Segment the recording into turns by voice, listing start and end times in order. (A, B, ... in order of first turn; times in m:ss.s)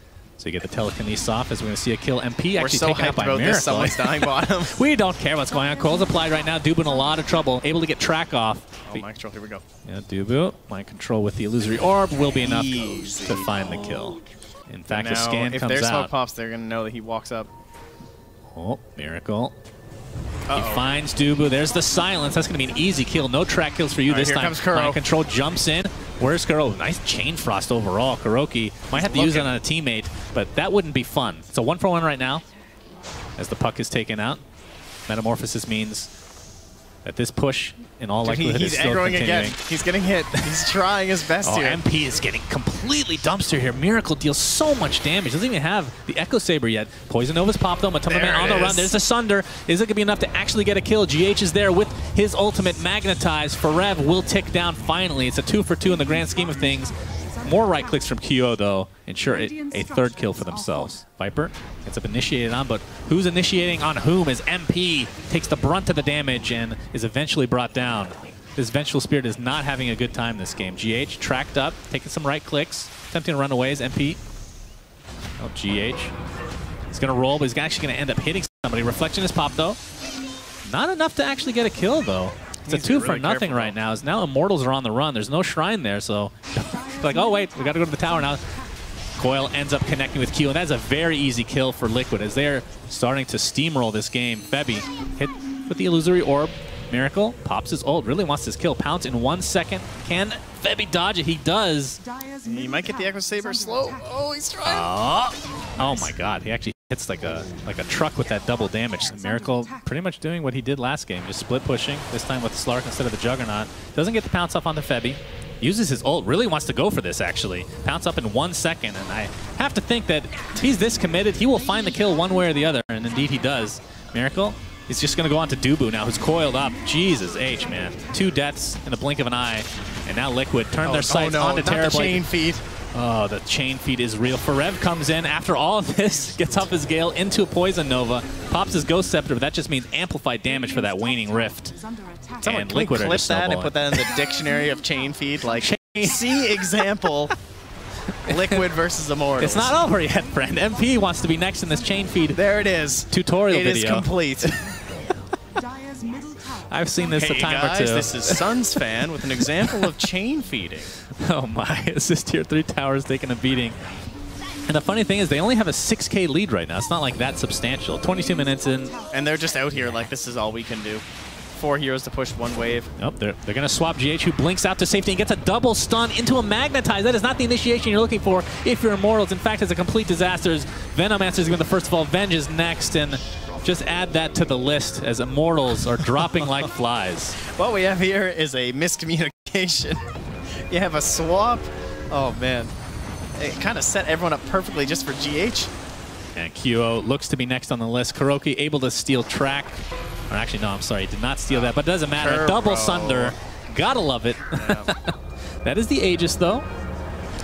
0:00.4-0:09.0 A
0:02.6-0:04.7 B
0:08.9-0:09.6 B
0:09.9-0:16.1 A
0:12.4-0:13.5 B
0:14.9-0:17.5 B
0:18.5-0:19.5 A
0:20.5-0:20.9 B
0:20.5-0:32.4 A
0:24.1-0:25.0 B
0:28.9-0:29.5 B
0:33.4-0:34.4 A
0:35.1-0:36.1 A
0:37.0-0:39.6 A
0:38.2-0:41.8 B
0:41.4-1:14.2 A
0:48.1-0:48.9 B
1:15.4-1:16.1 A
1:16.9-1:19.8 A
1:20.7-1:28.4 A
1:22.6-1:23.8 B
1:29.2-1:42.0 A
1:42.4-1:44.9 B
1:44.6-2:12.2 A
2:10.8-2:12.6 B
2:12.9-2:21.8 A
2:22.4-2:27.4 B
2:22.4-2:23.9 A
2:25.5-2:26.4 A
2:28.2-2:29.8 B
2:28.3-2:28.6 A
2:29.4-2:32.4 A
2:32.3-2:34.6 B
2:33.1-2:34.5 A
2:36.5-2:38.6 A
2:37.1-2:40.9 B
2:39.4-2:39.9 A
2:41.1-2:43.8 A
2:44.7-2:49.0 A
2:49.1-2:52.9 B
2:53.0-3:07.4 A
3:06.2-3:06.5 B
3:07.4-3:10.0 B
3:10.7-3:12.7 B
3:13.4-3:15.7 B
3:16.4-3:26.7 A
3:21.5-3:23.4 B
3:24.6-3:24.9 B